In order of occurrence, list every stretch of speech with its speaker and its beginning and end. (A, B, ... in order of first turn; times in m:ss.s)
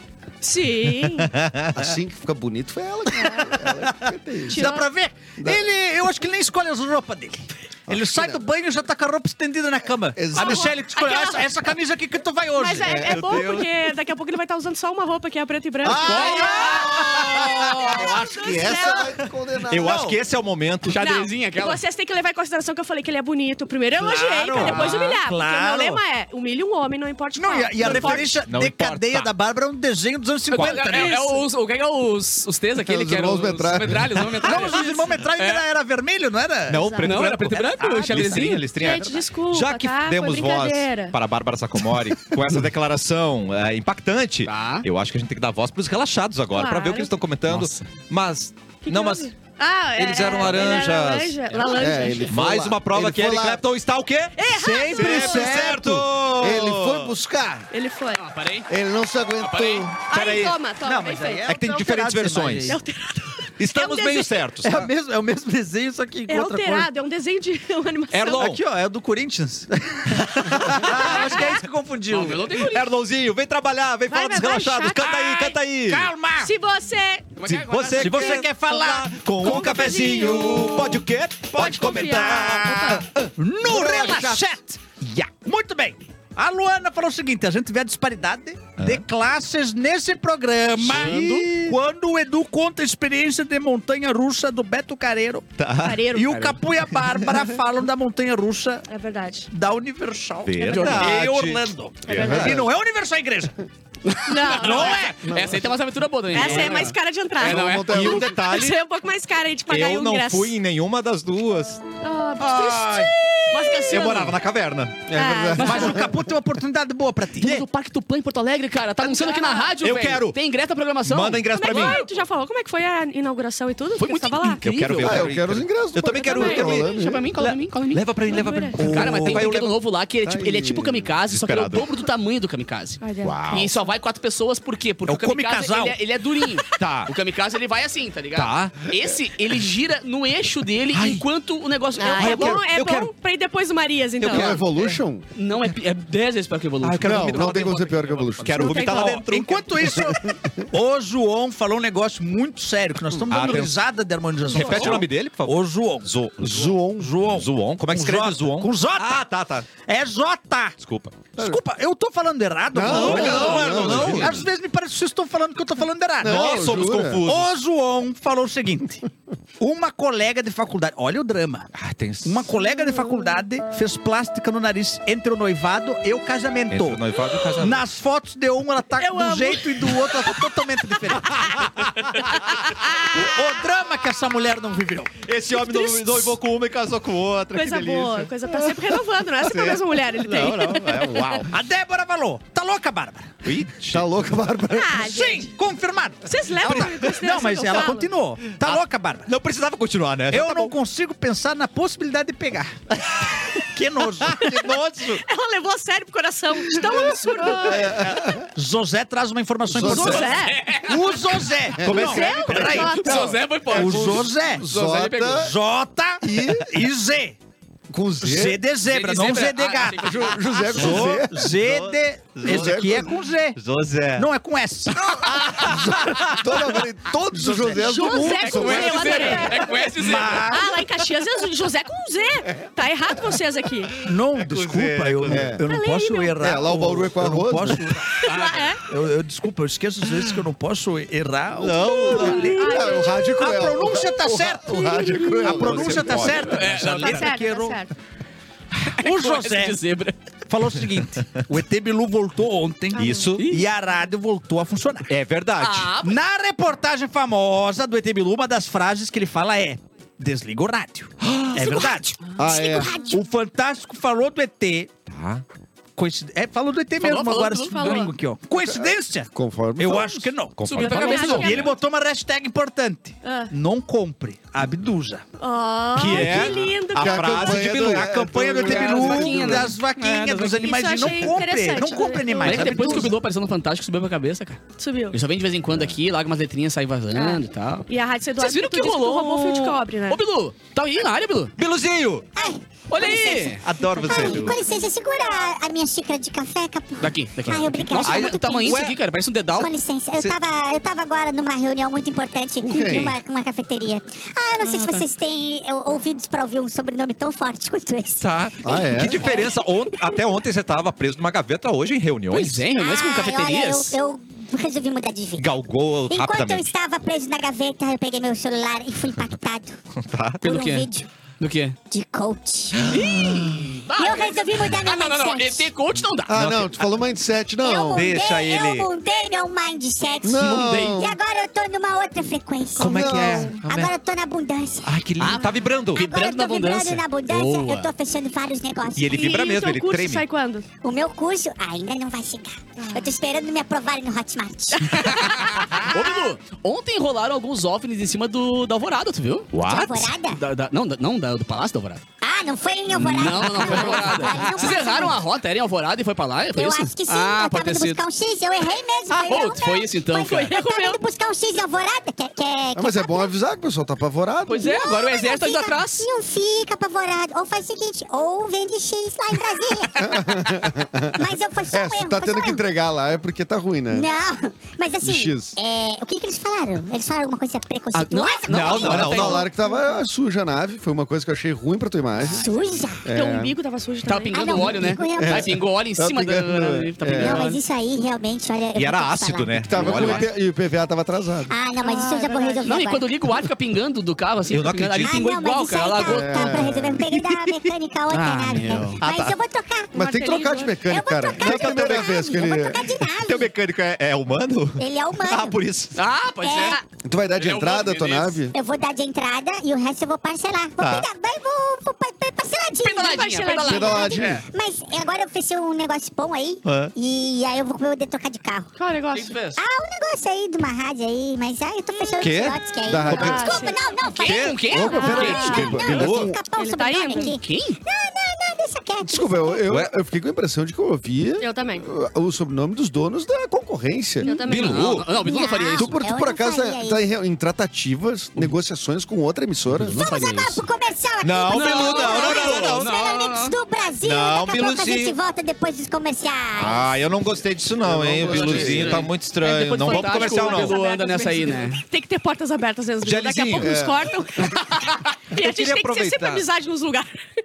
0:00.4-0:01.3 A
0:01.0-0:01.8 B
0:01.7-0:04.6 C
0:03.8-0:13.1 D
0:04.5-0:04.9 A
0:05.4-0:05.6 C
0:07.9-0:08.4 C
0:10.1-0:10.8 C
0:10.3-0:11.4 A
0:12.6-0:19.1 A
0:12.8-0:13.4 C
0:13.1-0:13.7 B
0:15.8-0:20.2 C
0:15.9-0:16.9 E
0:15.9-0:18.0 D
0:16.6-0:18.0 B
0:19.7-0:21.0 B
0:20.9-0:21.8 E
0:21.0-0:28.3 A
0:24.0-0:26.0 D
0:24.6-0:25.2 E
0:27.4-0:31.2 D
0:27.8-0:29.3 B
0:30.5-0:35.6 E
0:30.9-0:31.4 A
0:32.8-0:34.6 C
0:34.4-0:37.0 D
0:36.7-0:49.3 B
0:36.8-0:37.1 A
0:37.0-0:38.6 E
0:38.8-0:41.1 A
0:44.4-0:44.9 E
0:46.5-0:47.1 A
0:47.5-0:47.8 E
0:48.8-0:52.3 A
0:50.0-0:51.5 B
0:51.5-0:52.3 E
0:51.7-0:53.6 C
0:52.3-0:57.2 B
0:54.4-0:55.7 A
0:54.5-0:56.0 D
0:56.4-0:57.7 C
0:57.7-0:58.2 A
0:58.1-0:58.7 E
0:58.7-1:00.1 C
0:59.4-0:59.9 E
1:00.1-1:01.5 A
1:00.1-1:00.6 B
1:00.8-1:02.8 D
1:01.4-1:02.8 B
1:02.6-1:04.4 A
1:03.6-1:04.9 B
1:04.6-1:06.9 D
1:06.3-1:08.4 A
1:08.1-1:08.6 B
1:08.3-1:12.5 D
1:10.2-1:11.3 B
1:10.8-1:11.6 A
1:12.1-1:12.8 E
1:12.5-1:16.1 B
1:14.1-1:15.5 A
1:15.8-1:16.5 D
1:16.4-1:17.4 A
1:17.4-1:18.4 E
1:17.4-1:24.4 B
1:17.9-1:19.7 D
1:19.4-1:21.0 A
1:21.6-1:22.8 D
1:21.6-1:23.1 A
1:23.4-1:38.9 D
1:28.8-1:29.0 B
1:30.8-1:31.5 E
1:30.8-1:31.7 B
1:35.6-1:36.1 B
1:35.8-1:36.4 A
1:36.3-1:36.6 E
1:38.9-1:39.5 A
1:39.5-1:43.5 D
1:40.4-1:42.6 B
1:40.7-1:41.1 E
1:42.1-1:42.5 A
1:42.1-1:42.6 C
1:44.0-1:48.3 E
1:44.2-1:45.2 A
1:44.6-1:45.1 D
1:45.3-1:45.6 C
1:46.3-1:47.7 A
1:47.4-1:48.4 C
1:47.8-1:48.8 B
1:48.4-1:50.5 A
1:49.7-1:51.8 B
1:52.0-1:54.4 A
1:52.4-1:53.1 D
1:53.9-1:55.1 B
1:55.1-1:56.1 C
1:55.1-1:56.0 A
1:55.6-1:57.6 D
1:57.4-2:02.2 E
1:59.0-1:59.7 A
1:59.8-2:00.4 B
2:01.0-2:02.0 B
2:01.5-2:04.6 A
2:04.0-2:05.3 E
2:04.6-2:09.7 B
2:05.0-2:07.2 C
2:06.3-2:06.7 A
2:06.6-2:08.0 E
2:08.3-2:08.8 A
2:08.8-2:22.6 E
2:08.8-2:09.5 D
2:10.2-2:11.1 C
2:11.3-2:11.9 B
2:13.0-2:13.4 A
2:13.2-2:13.8 B
2:15.0-2:16.0 D
2:16.8-2:17.1 B
2:18.3-2:18.9 B
2:20.9-2:21.2 B
2:22.0-2:24.6 A
2:22.2-2:23.1 B
2:24.2-2:24.6 B
2:24.2-2:25.2 C
2:24.3-2:28.8 E
2:26.8-2:27.6 B
2:27.0-2:29.1 C
2:28.4-2:30.0 B
2:28.7-2:29.2 A
2:28.7-2:36.1 D
2:33.3-2:33.8 B
2:34.4-2:39.7 B
2:34.6-2:35.0 A
2:36.4-2:37.1 C
2:36.9-2:39.2 D
2:39.8-2:40.7 D
2:40.8-2:41.2 B
2:41.4-2:49.0 D
2:42.7-2:44.4 C
2:42.8-2:44.4 B
2:43.0-2:43.6 E
2:46.2-2:47.2 C
2:46.2-2:47.5 B
2:49.6-2:51.7 D
2:51.8-2:52.5 B
2:52.2-3:01.6 D
2:56.7-2:57.8 B
2:59.0-3:00.2 A
3:01.3-3:02.4 B
3:02.9-3:05.1 D
3:05.2-3:08.6 B
3:05.5-3:06.3 A
3:07.5-3:11.4 A
3:09.4-3:11.5 B
3:11.5-3:13.3 D
3:13.4-3:14.3 B
3:13.9-3:15.0 C
3:14.7-3:15.5 A
3:15.0-3:19.3 D
3:16.2-3:18.1 A
3:16.6-3:17.2 B
3:18.6-3:20.7 B
3:20.3-3:22.8 D
3:23.6-3:24.5 D
3:24.2-3:25.2 B
3:24.4-3:28.0 A
3:27.5-3:28.5 C
3:28.5-3:34.6 D
3:29.7-3:30.3 C
3:29.8-3:31.2 E
3:29.8-3:30.6 A
3:31.8-3:35.5 C
3:31.8-3:32.4 B
3:32.0-3:33.3 A
3:32.8-3:35.5 E
3:35.4-3:37.4 D
3:36.2-3:36.8 C
3:38.0-3:38.6 C
3:38.2-3:43.6 D
3:38.8-3:41.0 E
3:40.0-3:41.5 C
3:40.7-3:43.0 B
3:42.4-3:43.0 C
3:43.6-3:44.3 B
3:44.1-3:45.3 D
3:44.9-3:49.4 C
3:45.2-3:46.6 B
3:47.4-3:50.5 E
3:47.7-3:49.8 A
3:50.0-3:50.9 D
3:50.5-3:54.0 A
3:54.0-4:07.8 D
3:54.3-3:55.6 B
3:55.3-3:55.6 C
3:55.6-3:56.4 A
3:56.4-3:58.0 C
3:58.1-3:58.8 A
3:58.3-3:58.6 E
4:01.6-4:02.5 B
4:02.0-4:03.6 A
4:02.2-4:06.3 C
4:05.4-4:07.1 B
4:06.4-4:07.3 E
4:06.9-4:07.9 A
4:08.8-4:09.8 D
4:08.9-4:10.2 E
4:10.5-4:15.1 D
4:12.9-4:13.3 A
4:13.0-4:13.4 B
4:13.4-4:13.6 E
4:15.1-4:15.9 B
4:15.6-4:16.2 E
4:16.0-4:22.2 D
4:21.2-4:21.7 B
4:21.8-4:23.2 F
4:22.4-4:23.0 C
4:23.0-4:24.9 D
4:25.1-4:25.4 B
4:26.0-4:35.2 D
4:27.0-4:28.1 E
4:27.7-4:28.1 A
4:28.6-4:30.3 C
4:30.6-4:31.6 B
4:30.6-4:31.7 E
4:30.8-4:31.7 A
4:33.2-4:33.5 A
4:35.4-4:37.6 A
4:35.9-4:38.7 B
4:36.2-4:39.7 C
4:37.6-4:43.1 D
4:38.6-4:40.7 E
4:40.5-4:43.1 A
4:42.4-4:51.5 E
4:44.8-4:45.2 A
4:47.1-4:50.2 A
4:51.6-4:52.3 B
4:52.4-4:53.3 F
4:52.9-4:53.6 E
4:53.6-4:54.6 B
4:54.0-4:58.9 F
4:57.0-4:59.7 E
4:58.0-4:59.0 B
4:59.5-5:08.2 F
5:02.6-5:03.1 C
5:02.7-5:03.1 E
5:04.6-5:05.0 E
5:08.2-5:12.6 B
5:08.6-5:09.4 C
5:08.8-5:09.5 F
5:12.3-5:13.9 E
5:12.7-5:15.5 F
5:15.4-5:16.7 B
5:16.1-5:19.8 F
5:20.0-5:20.4 B
5:20.4-5:21.1 F
5:20.4-5:21.8 E
5:21.9-5:23.0 F
5:22.9-5:26.3 E
5:23.9-5:25.7 F
5:26.3-5:28.1 C
5:26.3-5:26.9 B
5:27.6-5:35.0 F
5:27.9-5:28.9 B
5:30.2-5:31.2 C
5:30.3-5:31.0 E
5:32.8-5:33.9 B
5:32.8-5:33.6 C
5:34.8-5:36.0 B
5:35.2-5:37.9 E
5:35.9-5:39.2 F
5:39.0-5:40.2 B
5:39.1-5:40.6 A
5:40.8-5:45.1 F
5:42.8-5:43.1 A
5:44.7-5:45.9 A
5:44.9-5:49.6 E
5:49.5-5:50.1 B
5:49.6-5:50.4 F
5:50.3-5:52.0 E
5:52.2-5:55.3 F
5:52.9-5:58.0 E
5:56.5-6:03.3 F
5:59.1-6:00.5 E
6:00.3-6:01.0 A
6:02.7-6:04.7 C
6:04.5-6:06.1 E
6:04.6-6:10.2 F
6:10.0-6:14.1 C
6:11.1-6:12.6 F
6:13.9-6:19.4 F
6:15.0-6:15.6 C
6:17.9-6:19.5 E
6:18.5-6:19.5 B
6:18.5-6:22.5 C
6:22.2-6:23.1 F
6:23.0-6:23.5 C
6:23.1-6:24.9 A
6:24.0-6:27.6 E
6:24.3-6:25.6 F
6:25.2-6:27.5 C
6:27.1-6:30.2 F
6:28.7-6:30.3 B
6:29.6-6:31.5 C
6:29.9-6:30.2 E
6:31.5-6:33.1 F
6:31.8-6:32.7 A
6:32.6-6:36.6 E
6:34.5-6:35.2 B
6:35.0-6:39.9 F
6:36.0-6:37.0 C
6:38.1-6:38.9 E
6:39.0-6:39.4 B
6:39.9-6:40.8 A
6:39.9-6:42.9 C
6:40.8-6:43.5 F
6:41.4-6:42.3 B
6:43.0-6:46.0 B
6:44.8-6:45.6 F
6:46.0-6:46.8 E
6:46.4-6:46.8 F
6:47.0-6:48.5 C
6:47.4-6:48.4 E
6:48.5-6:58.7 F
6:50.8-6:51.1 B
6:52.8-6:54.4 E
6:53.0-6:54.0 A
6:53.7-6:54.4 C
6:56.6-6:56.9 B
6:58.8-6:59.3 A
6:59.1-6:59.6 E
6:59.6-7:09.7 F
7:02.2-7:03.5 B
7:02.8-7:03.7 C
7:03.1-7:03.8 A
7:04.0-7:05.7 E
7:04.2-7:04.7 B
7:04.7-7:06.4 C
7:04.9-7:05.7 A
7:05.3-7:06.3 B
7:06.5-7:07.3 A
7:07.1-7:07.8 E
7:09.0-7:14.4 C
7:11.4-7:11.8 A
7:14.2-7:15.0 A
7:14.3-7:15.9 E
7:14.4-7:15.1 B
7:15.0-7:17.0 F
7:15.8-7:20.0 C
7:19.7-7:20.6 E
7:19.9-7:27.0 F
7:21.2-7:22.9 B
7:21.5-7:23.6 E
7:24.0-7:25.1 B
7:26.6-7:30.8 B
7:27.8-7:29.1 C
7:28.2-7:31.8 E
7:29.8-7:37.1 A
7:33.0-7:33.8 B
7:33.6-7:34.1 C
7:35.3-7:36.4 B